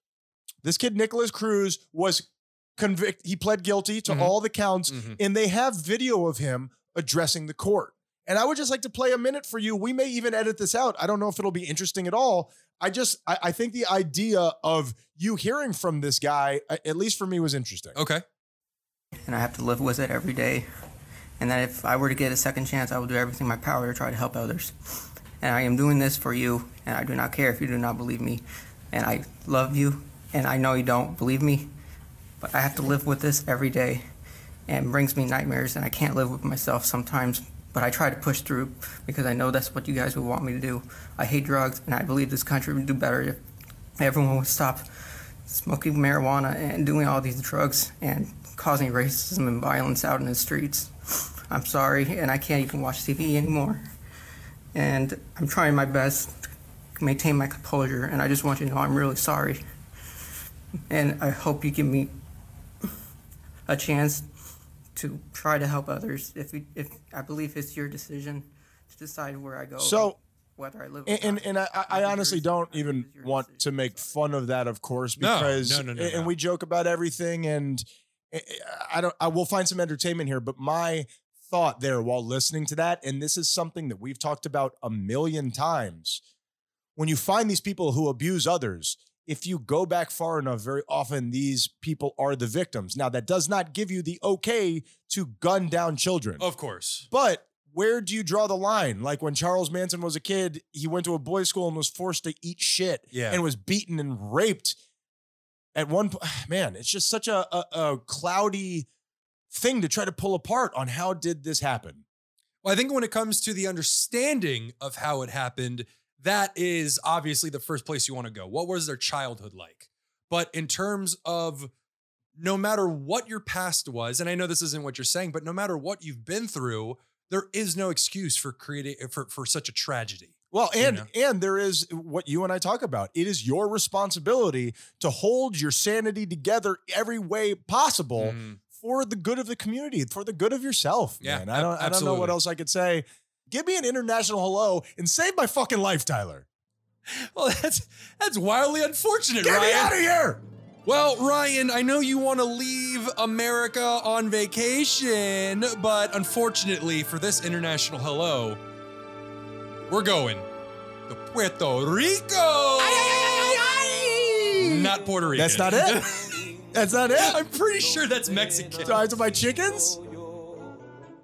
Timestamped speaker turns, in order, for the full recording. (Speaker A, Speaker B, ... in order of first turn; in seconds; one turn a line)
Speaker A: 0.6-18.0
Speaker B: 4.1-4.3
Speaker B: 4.9-5.2
Speaker B: 18.0-18.2
Speaker C: 19.3-20.7
Speaker C: 21.4-24.7
Speaker C: 25.4-31.7
Speaker C: 32.4-34.0
Speaker C: 34.7-43.4
Speaker C: 44.0-44.9
Speaker C: 45.5-53.8
Speaker C: 54.7-56.4
Speaker C: 57.0-59.6
Speaker C: 60.9-62.1
Speaker C: 63.7-64.3
Speaker C: 65.0-74.2
Speaker A: 69.8-70.2
Speaker A: 71.1-86.2
Speaker B: 75.2-76.3
Speaker A: 87.0-96.5
Speaker B: 96.4-97.1
Speaker A: 97.1-104.8
Speaker B: 103.1-103.4
Speaker A: 105.8-108.9
Speaker A: 109.5-112.0
Speaker B: 112.6-121.7
Speaker B: 122.4-131.1
Speaker A: 130.5-146.5
Speaker B: 138.2-138.6
Speaker B: 141.2-142.4
Speaker B: 147.1-150.0
Speaker A: 149.4-150.4
Speaker B: 150.9-158.6
Speaker B: 159.9-160.5
Speaker B: 161.1-163.7
Speaker A: 162.8-166.1
Speaker B: 164.6-166.6
Speaker A: 166.7-167.4
Speaker B: 167.2-169.0
Speaker A: 168.8-170.0